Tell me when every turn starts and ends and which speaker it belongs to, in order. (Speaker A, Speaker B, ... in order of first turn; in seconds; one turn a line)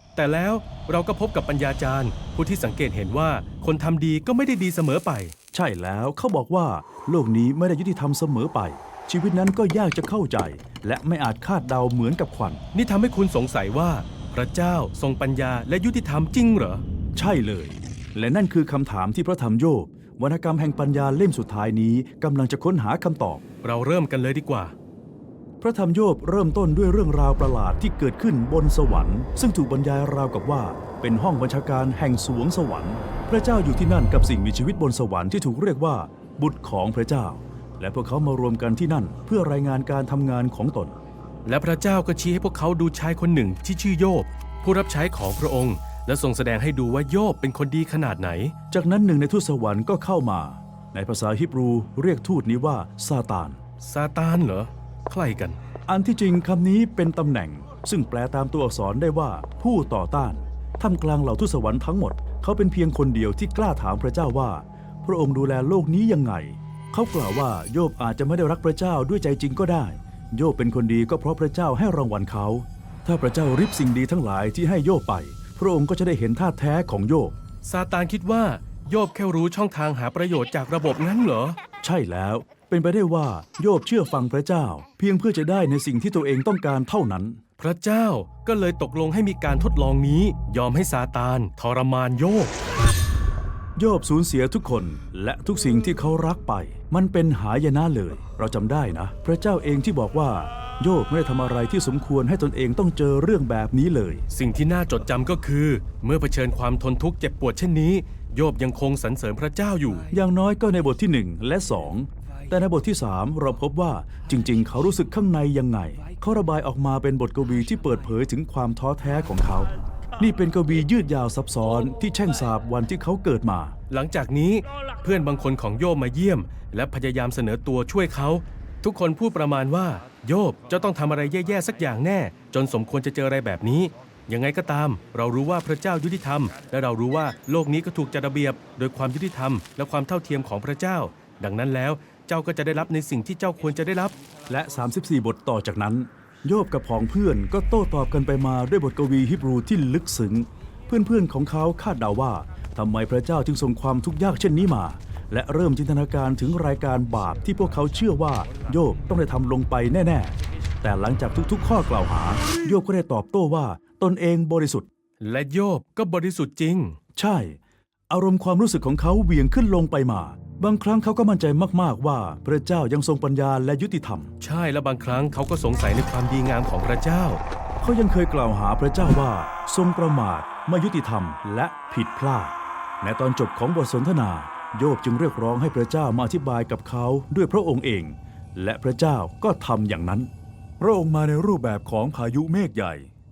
Speaker A: 0.1-5.3
Speaker B: 5.5-12.6
Speaker A: 12.7-16.8
Speaker B: 17.1-23.4
Speaker A: 23.6-24.7
Speaker B: 25.6-41.0
Speaker A: 41.4-48.5
Speaker B: 48.7-53.6
Speaker A: 53.8-55.6
Speaker B: 55.9-77.3
Speaker A: 77.6-81.6
Speaker B: 81.8-87.4
Speaker A: 87.6-92.5
Speaker B: 93.8-104.2
Speaker A: 104.3-110.1
Speaker B: 110.1-123.7
Speaker A: 123.9-144.1
Speaker B: 144.5-164.9
Speaker A: 165.2-167.0
Speaker B: 167.2-167.6
Speaker B: 168.1-174.3
Speaker A: 174.4-177.4
Speaker B: 177.8-190.3
Speaker B: 190.8-193.1